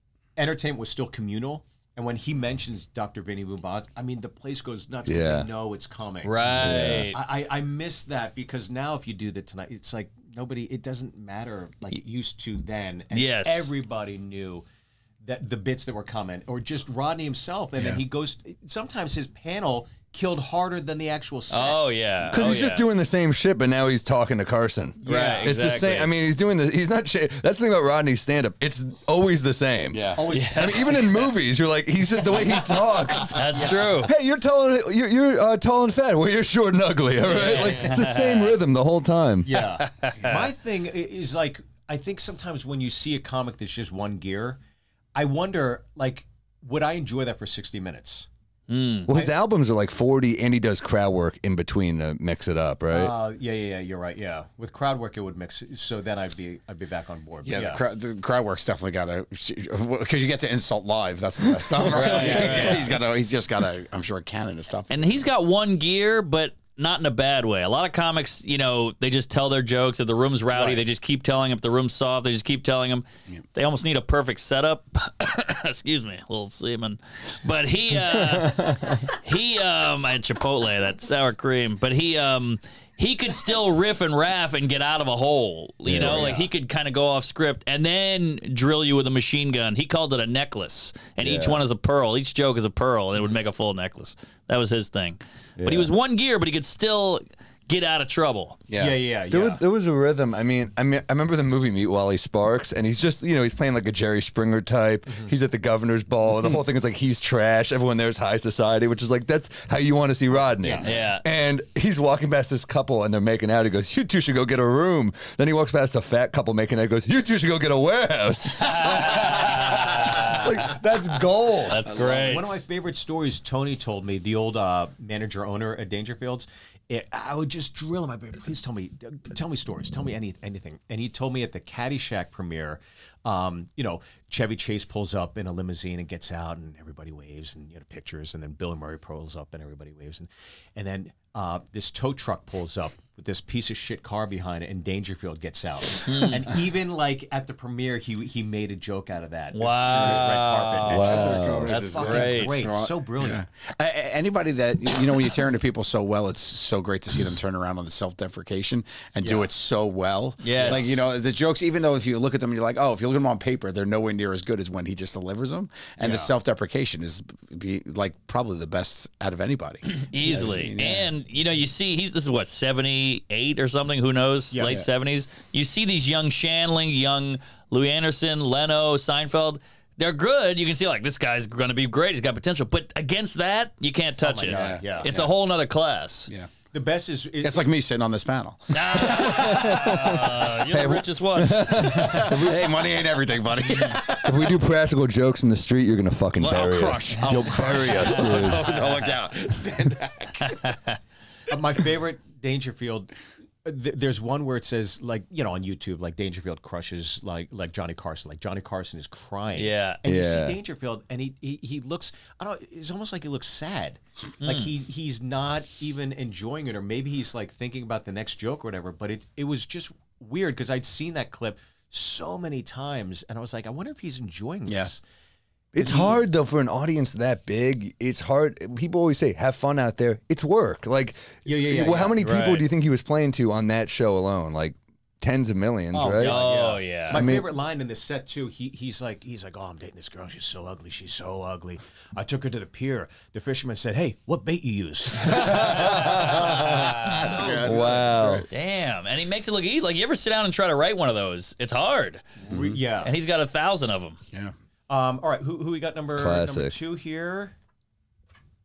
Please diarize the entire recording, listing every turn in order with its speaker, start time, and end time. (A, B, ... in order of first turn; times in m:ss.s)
0:00.4-0:14.6 A
0:05.0-0:05.5 B
0:06.2-0:07.2 C
0:06.5-0:07.1 B
0:13.1-0:13.7 C
0:15.2-0:21.8 A
0:21.5-0:22.9 C
0:22.3-0:39.6 B
0:25.0-0:25.5 A
0:25.0-0:26.1 C
0:29.9-0:30.2 D
0:30.2-0:30.9 A
0:30.3-0:31.3 C
0:33.2-0:34.1 C
0:33.6-0:34.0 A
0:37.2-0:37.9 A
0:37.3-0:38.6 C
0:39.4-0:44.6 A
0:39.8-0:40.4 C
0:45.1-0:48.3 A
0:48.7-0:49.1 C
0:49.0-0:53.2 B
0:49.1-0:49.3 A
0:52.9-0:57.8 A
0:57.4-1:05.3 D
1:01.6-1:02.9 B
1:01.9-1:02.9 C
1:04.9-1:38.6 C
1:10.5-1:10.8 A
1:18.3-1:18.8 B
1:25.8-1:26.3 B
1:26.0-1:26.5 A
1:31.2-1:31.6 B
1:35.6-1:35.9 B
1:38.7-1:39.0 D
1:38.8-1:39.6 A
1:39.3-2:01.8 B
1:45.1-1:45.3 A
1:50.6-1:50.9 A
1:50.8-1:51.2 C
1:58.6-2:00.7 C
2:01.6-2:02.5 C
2:01.9-2:02.4 D
2:02.0-2:33.4 A
2:26.0-2:26.4 C
2:29.5-2:32.6 C
2:30.9-2:51.1 D
2:30.9-2:31.7 B
2:39.2-2:39.5 A
2:40.4-2:41.0 C
2:40.6-2:41.0 A
2:46.0-2:46.3 A
2:49.9-3:06.3 C
2:54.5-2:54.8 A
2:54.6-2:54.9 D
3:04.2-3:05.3 A
3:04.5-3:05.3 D
3:06.7-3:07.6 A
3:07.4-3:09.5 D
3:08.7-3:12.4 C
3:09.1-3:12.8 B
3:11.9-3:14.4 D
3:13.6-3:14.0 C
3:14.2-3:18.7 B
3:16.4-3:20.7 D
3:18.0-3:18.5 C
3:20.6-3:20.9 C
3:21.5-3:45.0 A
3:29.6-3:30.0 C
3:30.0-3:30.6 B
3:34.4-3:34.7 C
3:44.6-3:44.9 D
3:45.7-3:56.4 B
3:45.8-3:46.2 A
3:51.4-3:52.7 A
3:55.9-4:06.1 A
3:56.2-3:57.2 C
3:57.1-3:57.5 B
4:05.2-4:08.5 B
4:05.8-4:08.5 D
4:06.6-4:07.2 C
4:07.4-4:08.0 A
4:08.5-4:12.2 C
4:12.5-4:12.8 B
4:12.6-4:13.1 A
4:13.0-4:14.2 C
4:14.9-4:17.5 A
4:16.1-4:16.8 B